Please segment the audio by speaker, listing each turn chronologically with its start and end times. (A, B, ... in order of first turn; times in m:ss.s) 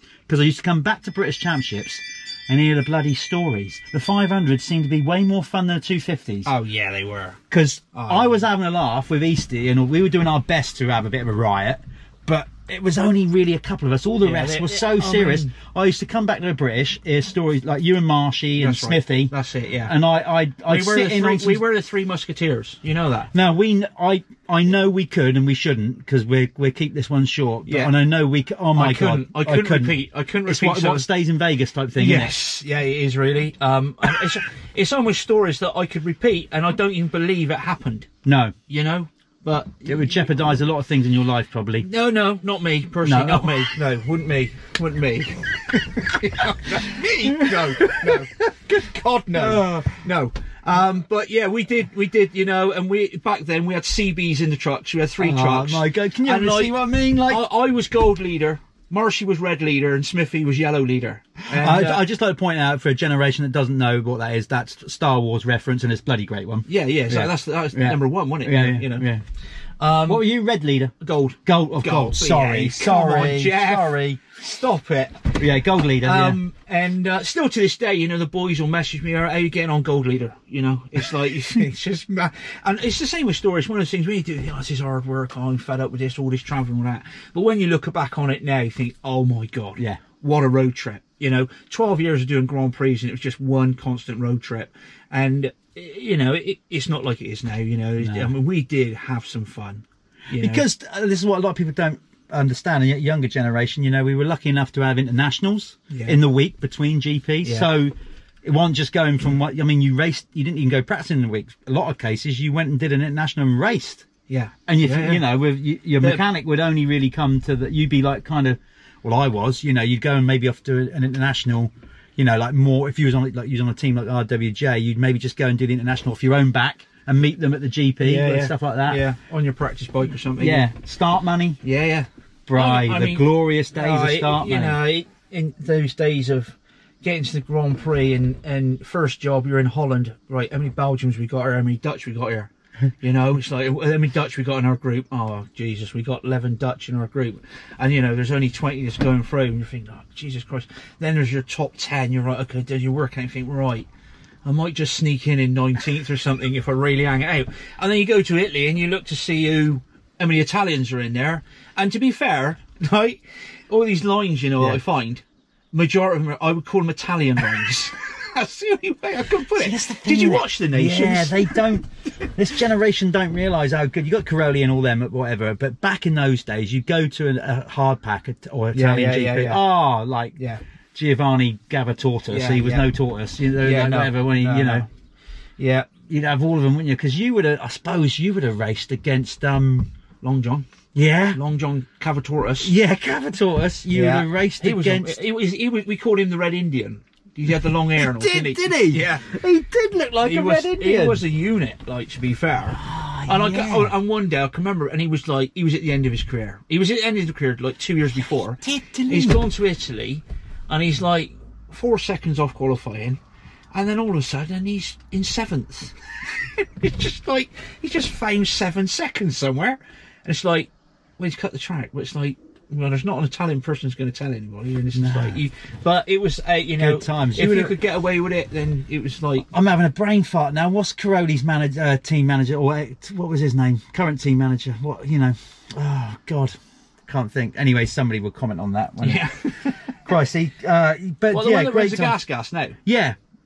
0:00.3-0:06.5 A
0:06.4-0:07.4 B
0:07.5-0:19.3 A
0:07.9-0:08.4 B
0:14.2-0:15.5 B
0:18.6-0:20.0 B
0:19.8-0:21.6 A
0:20.7-0:23.3 B
0:23.3-0:32.3 A
0:27.6-0:27.9 B
0:28.7-0:31.0 B
0:32.0-0:38.1 B
0:38.2-0:38.5 A
0:38.7-0:39.9 B
0:39.8-0:41.9 A
0:41.8-1:02.0 B
0:43.0-0:43.7 A
0:47.2-0:48.2 A
0:49.3-0:50.0 A
0:55.2-0:57.4 A
1:01.5-1:09.2 A
1:06.7-1:09.1 B
1:09.8-1:10.2 B
1:10.0-1:10.9 A
1:11.0-1:15.4 B
1:11.4-1:14.2 A
1:15.4-1:16.4 A
1:16.0-1:40.6 B
1:38.0-1:38.3 A
1:40.4-1:47.9 A
1:45.9-1:46.2 B
1:47.4-1:47.7 B
1:48.4-1:54.1 A
1:54.3-1:55.2 B
1:54.7-2:09.0 A
2:08.0-2:10.7 B
2:10.4-2:11.6 A
2:11.6-2:22.5 B
2:12.5-2:14.8 A
2:23.0-2:33.9 B
2:34.4-2:51.7 B
2:49.5-3:00.4 A
2:58.7-2:59.6 B
3:00.4-3:00.6 B
3:00.9-3:04.8 A
3:02.3-3:02.9 B
3:03.6-3:04.9 B
3:05.6-3:05.9 B
3:06.1-3:09.9 A
3:10.2-3:10.7 B
3:10.9-3:11.4 A
3:11.3-3:12.7 B
3:12.6-3:15.2 A
3:13.9-3:19.3 B
3:18.0-3:21.2 A
3:20.2-3:33.2 B
3:22.8-3:23.9 A
3:28.6-3:29.4 A
3:33.7-3:49.5 B
3:44.9-3:45.4 A
3:46.8-3:47.8 A
3:49.5-3:56.5 A
3:57.0-3:59.3 A
3:59.0-4:00.0 B
3:59.9-4:02.2 A
4:01.3-4:02.8 B
4:02.8-4:03.2 A